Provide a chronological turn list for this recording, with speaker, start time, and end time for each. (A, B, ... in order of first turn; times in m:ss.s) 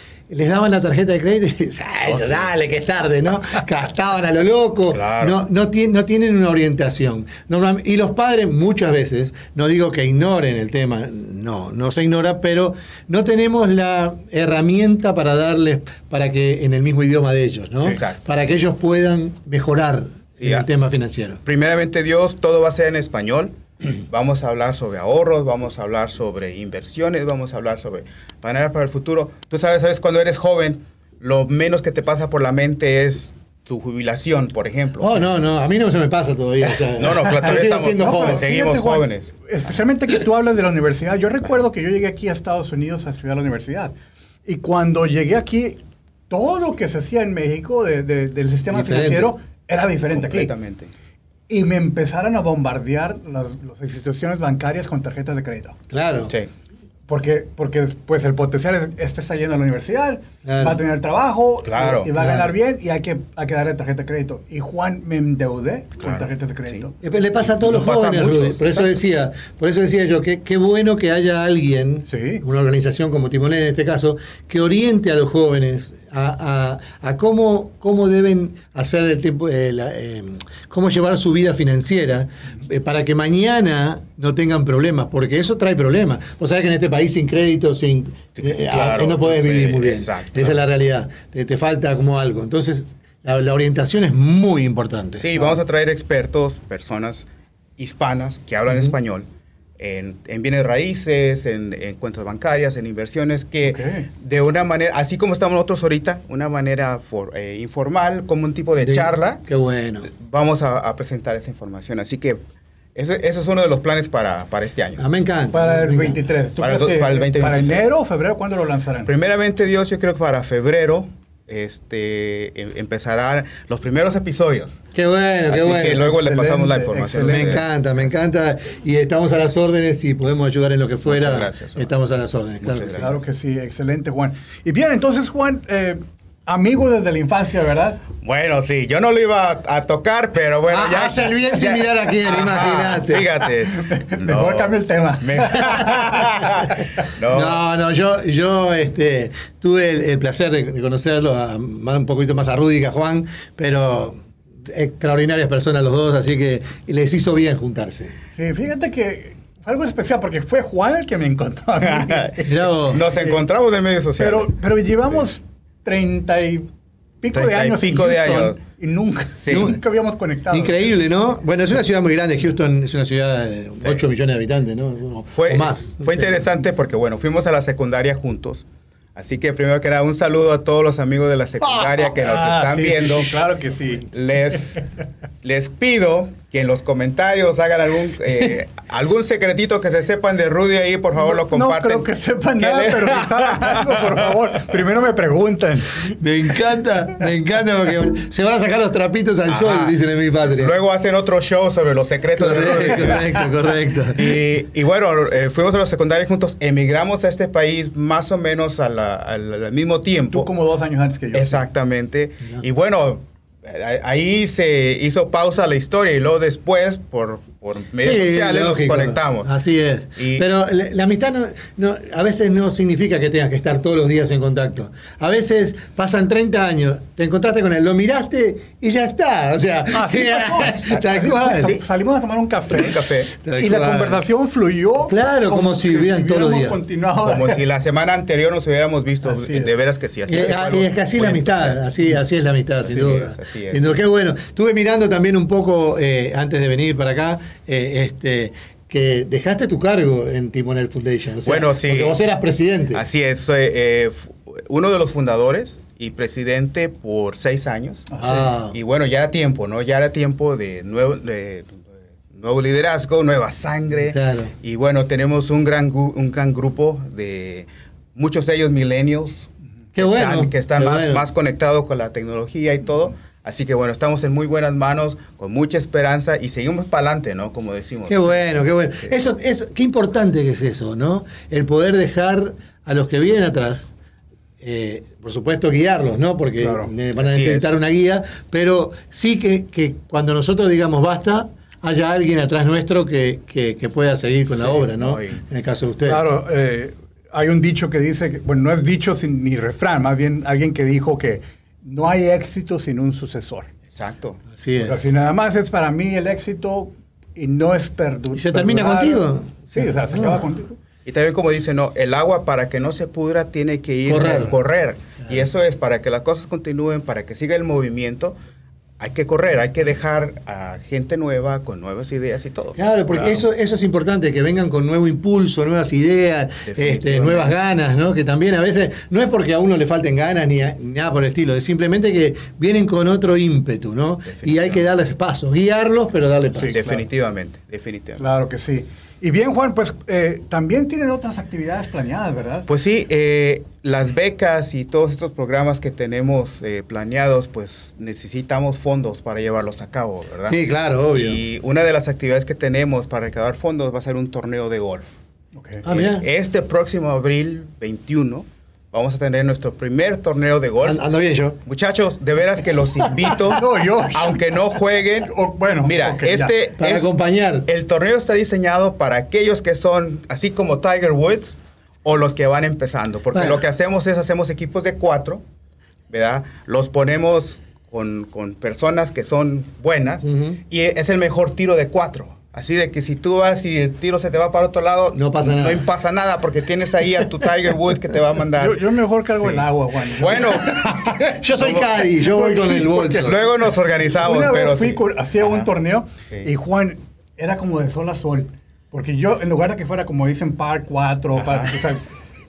0:00.3-0:21.4 A
0:02.0-0:02.5 B
0:04.9-0:05.4 B
0:17.8-0:18.2 B
0:20.4-0:20.7 B
0:21.4-0:35.1 B
0:35.0-0:38.4 A
0:37.0-0:39.3 B
0:38.0-0:43.9 C
0:44.4-0:45.8 C
0:46.3-0:50.5 C
0:48.7-0:49.3 A
0:50.1-0:50.9 B
0:51.5-0:55.8 C
0:55.9-0:56.3 A
0:56.2-0:56.5 B
0:57.1-1:06.9 C
1:00.4-1:00.8 A
1:01.6-1:02.1 B
1:02.1-1:02.5 A
1:06.0-1:06.9 B
1:07.0-1:35.4 A
1:07.6-1:09.0 B
1:12.1-1:12.4 C
1:28.4-1:30.6 B
1:35.2-1:37.3 B
1:37.8-1:39.2 B
1:39.8-1:49.4 B
1:43.7-1:44.1 C
1:48.8-1:50.1 A
1:50.1-1:52.4 B
1:52.9-1:55.0 B
1:55.0-1:56.2 A
1:55.5-1:59.1 C
1:56.6-1:57.8 B
1:59.0-2:04.8 B
2:04.9-2:06.1 A
2:05.5-2:07.7 B
2:05.9-2:07.6 C
2:07.2-2:13.1 A
2:11.0-2:11.9 B
2:12.6-2:13.1 B
2:13.0-2:18.0 C
2:18.2-2:27.6 B
2:20.7-2:23.3 A
2:23.7-2:26.5 C
2:27.3-2:38.1 A
2:38.3-2:42.5 C
2:41.8-2:44.5 B
2:42.5-2:43.0 A
2:44.2-2:46.7 C
2:47.2-2:50.8 C
2:47.3-2:48.6 B
2:49.3-2:49.8 B
2:49.5-2:49.8 A
2:50.5-2:56.5 A
2:55.3-2:58.6 B
2:59.2-3:03.3 B
3:01.6-3:01.9 A
3:02.2-3:04.1 C
3:04.1-3:04.8 B
3:05.4-3:14.3 B
3:11.2-3:16.2 C
3:16.1-3:20.7 A
3:19.5-3:20.0 B
3:20.5-3:23.3 B
3:22.4-3:24.4 A
3:24.1-3:30.5 B
3:30.3-3:31.6 C
3:31.3-3:39.5 B
3:38.0-3:51.7 A
3:40.2-3:40.4 B
3:49.9-3:53.0 C
3:51.5-3:51.8 B
3:52.7-3:53.3 B
3:53.4-3:54.2 A
3:53.6-3:57.6 C
3:55.1-3:56.8 A
3:57.2-4:01.8 B
3:59.2-3:59.7 C
4:00.3-4:13.0 A
4:02.8-4:04.0 B
4:11.4-4:12.2 B
4:12.9-4:38.4 B
4:18.1-4:18.5 C
4:18.2-4:18.8 A
4:24.1-4:24.5 A
4:29.9-4:31.2 A
4:38.1-4:43.9 A
4:44.6-4:56.2 A
4:46.6-4:46.9 C
4:47.2-4:47.7 B
4:54.5-4:55.4 B
4:56.1-5:03.7 C
5:03.9-5:04.4 B
5:04.5-5:05.1 A
5:04.8-5:10.8 C
5:08.3-5:10.5 A
5:11.0-5:18.3 B
5:14.1-5:14.5 A
5:19.0-5:23.4 B
5:22.8-5:36.8 A
5:26.6-5:27.5 B
5:34.3-5:34.8 B
5:36.6-5:37.0 C
5:36.7-5:38.2 B
5:38.2-5:42.6 C
5:42.7-5:50.6 B
5:50.5-5:51.4 A
5:51.1-5:55.1 B
5:55.5-5:55.8 C
5:55.8-5:56.2 A
5:55.8-6:01.0 B
6:00.8-6:01.6 A
6:01.6-6:07.1 B
6:03.4-6:04.4 C
6:05.2-6:06.5 C
6:06.8-6:07.7 A
6:07.6-6:15.4 B
6:13.3-6:13.6 A
6:16.1-6:30.8 B
6:20.2-6:20.6 A
6:25.1-6:25.8 A
6:28.6-6:33.5 C
6:30.4-6:33.4 A
6:31.6-6:31.9 B
6:33.2-6:35.7 B
6:34.1-6:42.0 C
6:41.4-6:41.8 B